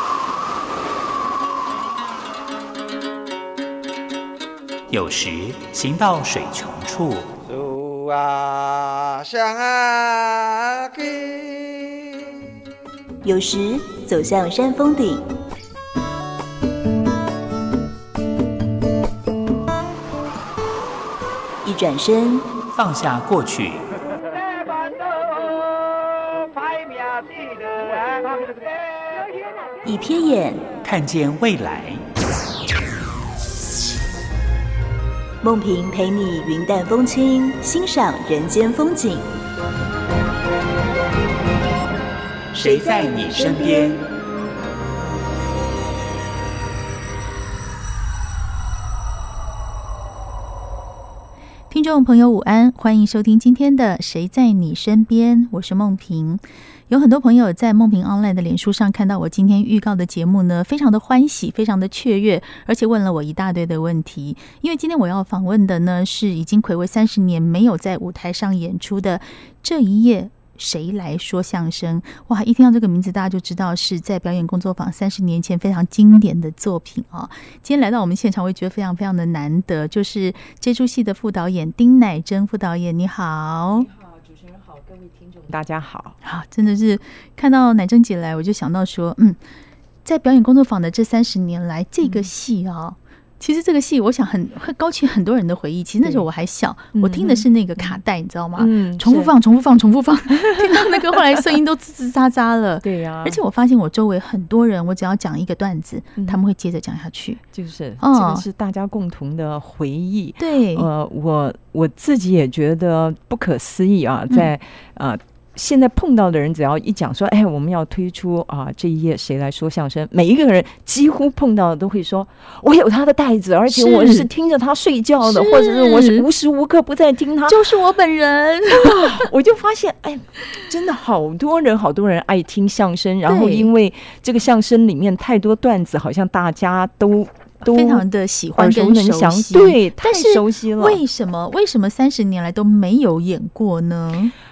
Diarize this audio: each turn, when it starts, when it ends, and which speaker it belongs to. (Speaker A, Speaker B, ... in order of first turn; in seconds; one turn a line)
Speaker A: 4.9-7.3
Speaker B: 7.5-11.9
Speaker C: 13.2-15.2
Speaker C: 21.6-22.6
Speaker A: 22.7-23.9
Speaker C: 29.8-30.8
Speaker A: 30.8-32.0
Speaker C: 35.4-39.2
Speaker A: 42.5-44.0
Speaker C: 42.6-44.0
Speaker D: 51.7-83.9
Speaker E: 85.2-86.2
Speaker D: 86.2-89.4
Speaker D: 90.0-107.4
Speaker E: 92.0-92.3
Speaker E: 97.0-98.0
Speaker E: 98.5-99.3
Speaker E: 100.5-101.2
Speaker E: 102.8-103.4
Speaker E: 107.5-127.6
Speaker D: 108.0-108.5
Speaker D: 110.4-110.9
Speaker D: 123.7-124.3
Speaker D: 125.2-126.3
Speaker D: 127.5-129.3
Speaker E: 128.8-138.0
Speaker D: 133.2-133.7
Speaker D: 137.6-144.3
Speaker E: 138.6-141.0